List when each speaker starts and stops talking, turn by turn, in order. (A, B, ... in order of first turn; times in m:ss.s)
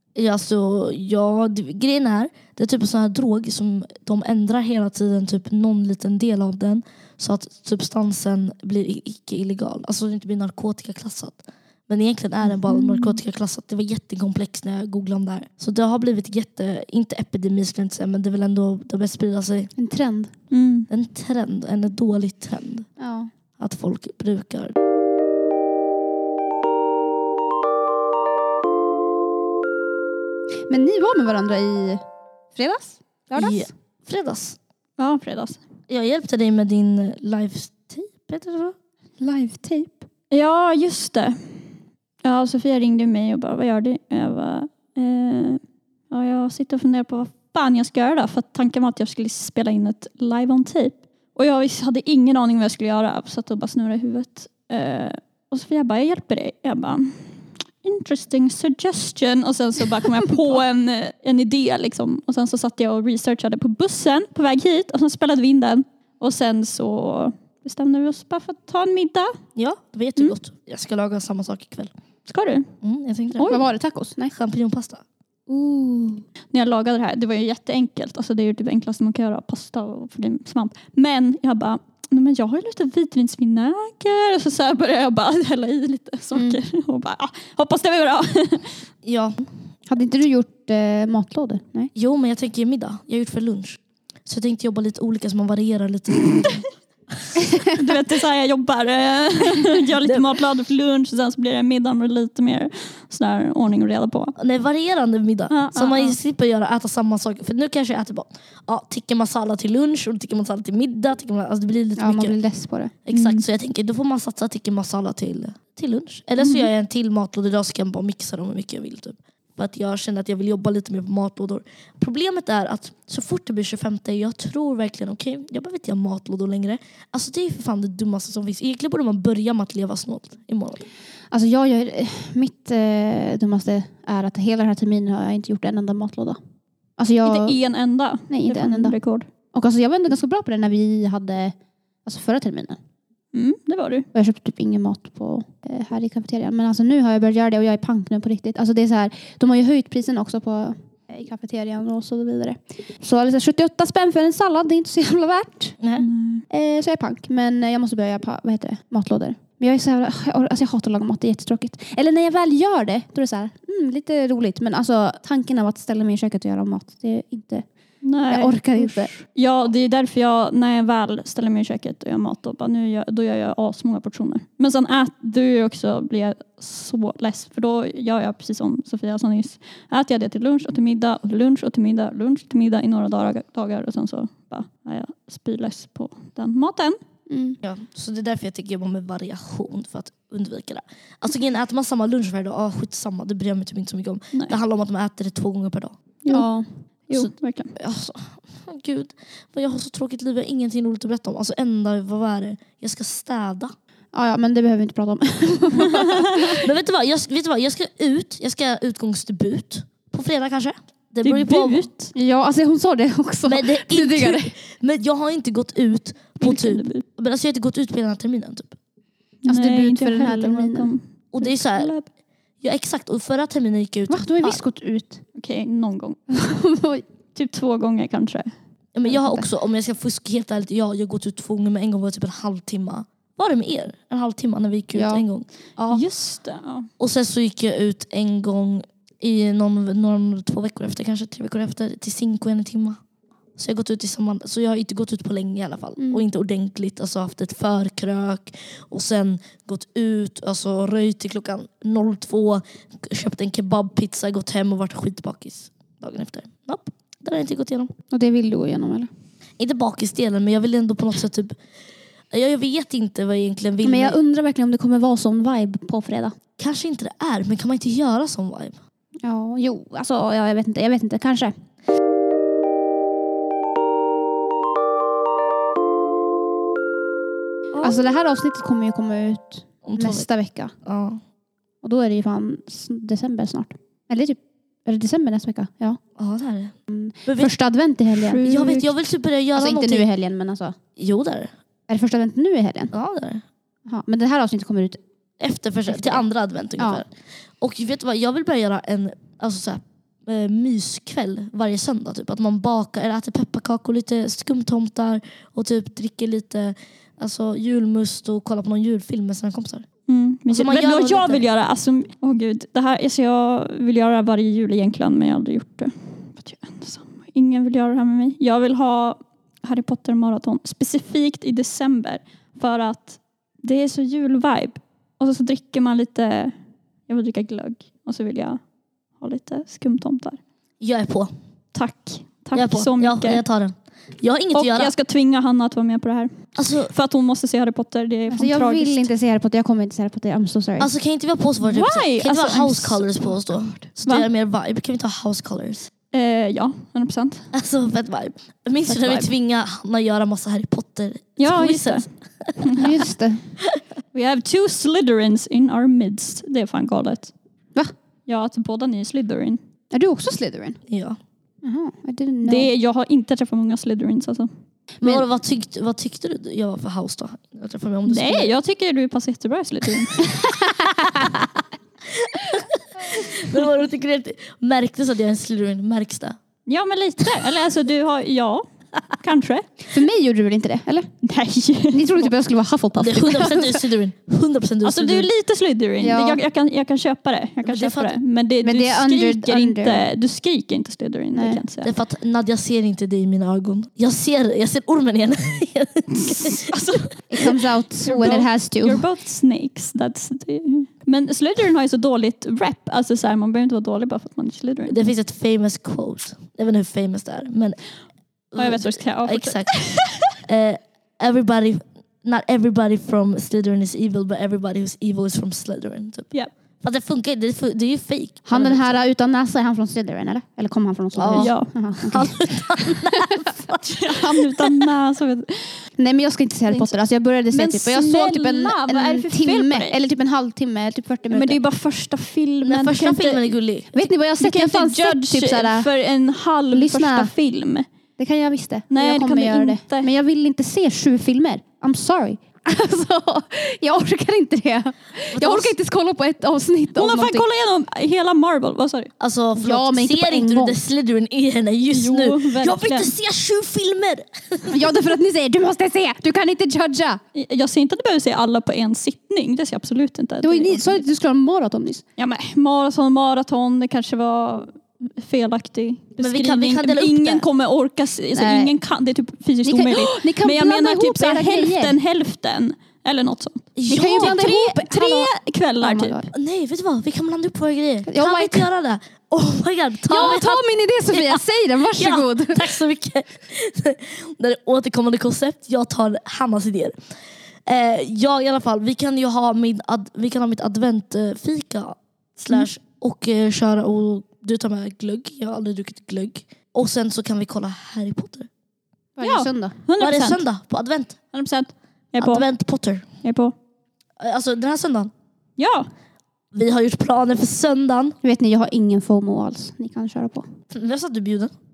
0:00.2-0:19.7 A
0:12.7-0:13.1 B
0:19.8-0:20.3 C
0:20.5-0:20.9 B
0:20.9-0:22.9 A
0:23.0-0:23.3 C
0:23.6-0:24.7 A
0:30.7-0:33.7 C
0:33.4-0:34.6 A
0:35.0-0:35.6 B
0:35.9-0:38.8 A
0:39.2-0:40.1 C
0:40.3-1:09.4 B
1:09.6-1:11.9 A
1:12.3-1:12.7 B
1:12.8-1:13.6 A
1:13.3-1:13.6 B
1:13.5-1:14.3 C
1:14.3-1:15.0 A
1:15.5-1:16.2 C
1:16.5-1:28.8 B
1:26.3-1:26.6 C
1:29.0-1:29.5 A
1:29.9-1:31.9 C
1:31.9-1:36.7 A
1:37.8-1:44.3 B
1:40.0-1:40.3 A
1:44.4-1:52.4 A
1:45.5-1:46.2 B
1:52.0-1:52.9 C
1:53.0-2:10.8 A
1:53.1-1:53.4 B
1:56.4-1:56.7 B
2:11.3-2:16.4 C
2:17.0-2:17.6 C
2:17.2-2:19.3 B
2:18.3-2:19.0 C
2:19.5-2:22.8 C
2:23.3-2:24.1 B
2:24.1-2:35.8 C
2:35.8-2:36.1 A
2:36.0-2:36.4 B
2:36.5-2:47.7 C
2:48.0-3:07.0 B
2:48.2-2:49.1 C
3:07.3-3:07.6 C
3:07.6-3:16.0 A
3:16.2-3:17.7 B
3:16.3-3:16.6 C
3:17.1-3:23.7 A
3:24.1-3:26.6 C
3:26.6-3:31.9 A
3:31.2-3:32.1 B
3:32.1-3:34.5 C
3:33.4-3:38.7 A
3:36.4-3:37.0 B
3:39.4-3:42.1 B
3:39.4-3:40.9 C
3:41.3-3:41.9 A
3:42.6-3:44.6 A
3:44.1-3:45.2 C
3:45.3-3:46.4 B
3:46.3-3:47.0 C
3:47.3-3:48.5 B
3:48.9-3:56.0 A
3:49.1-3:49.5 C
3:54.9-3:55.2 C
3:55.9-3:56.9 B
3:57.0-4:03.0 A
4:03.6-4:17.9 A
4:06.0-4:06.2 C
4:18.1-4:19.1 C
4:19.6-4:21.6 A
4:22.3-4:24.2 A
4:23.8-4:26.4 C
4:26.6-4:28.8 A
4:29.2-4:31.5 C
4:37.8-4:40.7 C
4:39.8-4:40.2 A
4:40.8-4:41.2 A
4:41.8-4:46.0 C
4:46.2-4:47.5 A
4:46.9-4:48.9 C
4:48.3-4:48.7 B
4:48.4-4:50.0 A
4:49.5-4:50.8 C
4:51.0-4:51.5 A
4:51.9-4:52.9 C
4:52.9-4:53.4 A
4:53.8-4:55.0 C
4:55.4-5:09.9 A
4:55.9-4:56.2 C
4:56.8-4:57.0 C
5:10.1-5:26.5 B
5:10.5-5:11.4 A
5:27.1-5:30.4 B
5:30.8-5:31.3 A
5:31.7-5:33.4 B
5:32.5-5:34.9 A
5:34.5-5:39.1 B
5:36.6-5:36.9 A
5:38.3-5:40.9 C
5:40.8-5:45.9 A
5:41.6-5:44.3 B
5:42.2-5:42.5 C
5:46.1-5:47.5 B
5:47.5-5:52.8 A
5:48.9-5:49.3 B
5:51.4-5:52.9 B
5:52.8-5:53.5 C
5:54.1-5:57.3 B
5:58.3-5:59.6 B
5:59.9-6:00.8 C
6:00.9-6:01.2 A
6:01.6-6:02.7 C
6:02.4-6:04.5 B
6:05.0-6:08.5 A
6:08.1-6:10.2 B
6:11.0-6:11.3 A
6:12.2-6:16.4 A
6:16.6-6:19.8 B
6:19.9-6:21.1 C
6:21.2-6:22.3 B
6:21.9-6:23.8 C
6:23.0-6:25.3 A
6:24.8-6:31.9 B
6:26.0-6:26.4 C
6:27.6-6:28.2 A
6:28.6-6:30.1 C
6:31.3-6:31.6 C
6:31.8-6:36.6 A
6:36.2-6:45.0 B
6:37.3-6:39.0 C
6:44.9-6:47.8 A
6:48.5-6:58.9 A
6:48.6-6:50.2 B
6:58.4-7:03.2 C
7:01.1-7:04.3 A
7:01.4-7:01.7 B
7:04.0-7:05.9 B
7:06.0-7:11.6 C
7:06.7-7:07.0 B
7:07.5-7:10.0 B
7:11.3-7:13.4 B
7:12.6-7:13.9 A
7:13.9-7:15.9 C
7:14.4-7:17.9 B
7:16.7-7:17.3 C
7:18.2-7:27.4 C
7:18.9-7:20.1 B
7:25.3-7:25.7 A
7:26.9-7:29.1 B
7:29.2-7:34.8 A
7:29.6-7:30.8 C
7:31.9-7:33.1 B
7:34.7-7:37.2 C
7:37.3-7:41.0 B
7:40.4-7:42.0 C
7:42.2-7:56.2 B
7:46.2-7:47.4 A
7:48.3-7:48.8 C
7:49.6-7:52.0 C
7:53.7-7:54.4 A
7:53.9-7:56.3 C
7:56.3-8:07.0 A
7:58.1-7:58.7 C
8:00.1-8:02.8 C
8:07.6-8:18.5 A
8:19.2-8:19.8 C
8:19.2-8:20.4 B
8:20.0-8:21.2 A
8:21.3-8:23.5 B
8:22.2-8:23.1 A
8:24.2-8:25.1 A
8:25.6-8:25.9 B
8:26.5-8:28.2 A
8:28.2-8:30.4 C
8:30.7-8:31.5 A